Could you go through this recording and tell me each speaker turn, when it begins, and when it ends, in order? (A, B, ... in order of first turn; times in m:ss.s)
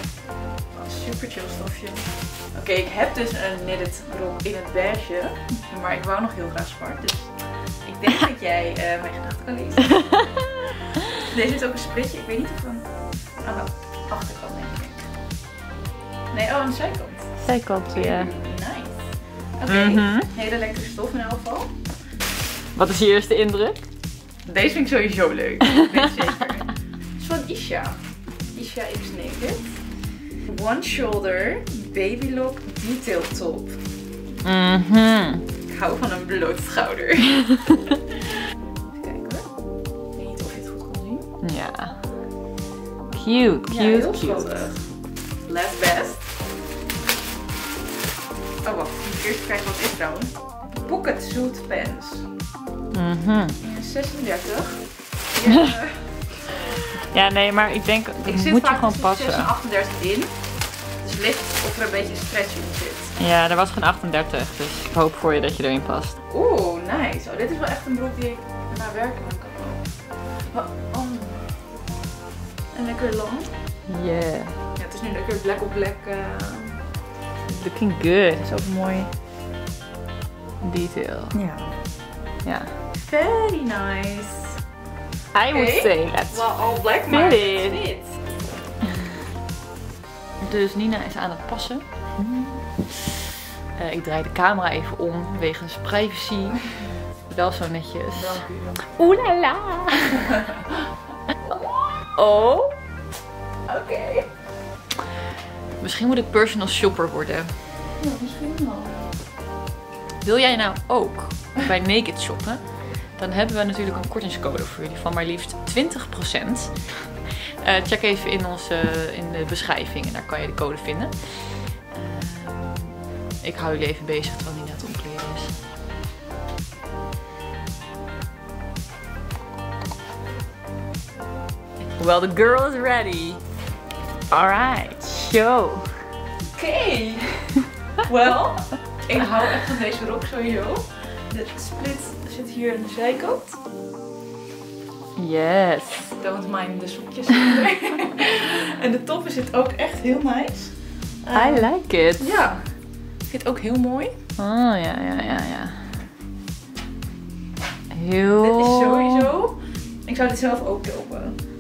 0:00.7-0:10.5 A
0:11.1-0:15.1 A
0:16.3-0:21.8 A
0:17.4-0:18.3 B
0:19.7-0:20.3 B
0:22.7-0:23.8 B
0:24.4-0:28.0 A
0:28.5-0:33.8 A
0:34.4-0:35.4 B
0:35.7-0:37.7 A
0:38.9-0:39.5 A
0:40.1-0:41.3 A
0:41.4-0:42.0 B
0:43.1-0:44.7 B
0:43.6-0:44.9 A
0:45.4-0:46.3 A
0:48.6-0:52.2 A
0:52.9-0:53.6 B
0:53.6-0:56.5 A
0:57.1-0:59.5 B
0:58.2-1:03.2 A
1:03.2-1:06.2 B
1:06.3-1:11.6 A
1:12.7-1:13.5 A
1:13.9-1:14.6 B
1:14.8-1:16.8 A
1:17.5-1:18.4 B
1:18.4-1:19.1 A
1:20.6-1:21.3 B
1:21.3-1:21.6 A
1:22.4-1:22.7 B
1:23.0-1:24.6 A
1:25.3-1:26.4 B
1:25.5-1:28.2 A
1:27.1-1:27.8 B
1:30.4-1:31.8 B
1:33.8-1:40.3 B
1:38.1-1:38.9 A
1:41.4-1:42.1 A
1:42.2-1:42.7 B
1:43.7-1:44.3 A
1:45.8-1:47.5 B
1:48.0-1:49.1 A
1:50.2-2:05.6 B
2:12.0-2:13.4 B
2:14.3-2:15.9 B
2:16.5-2:23.6 A
2:25.2-2:26.2 B
2:26.2-2:34.1 A
2:31.3-2:32.4 B
2:34.4-2:36.0 B
2:37.9-2:39.3 B
2:38.4-2:41.4 A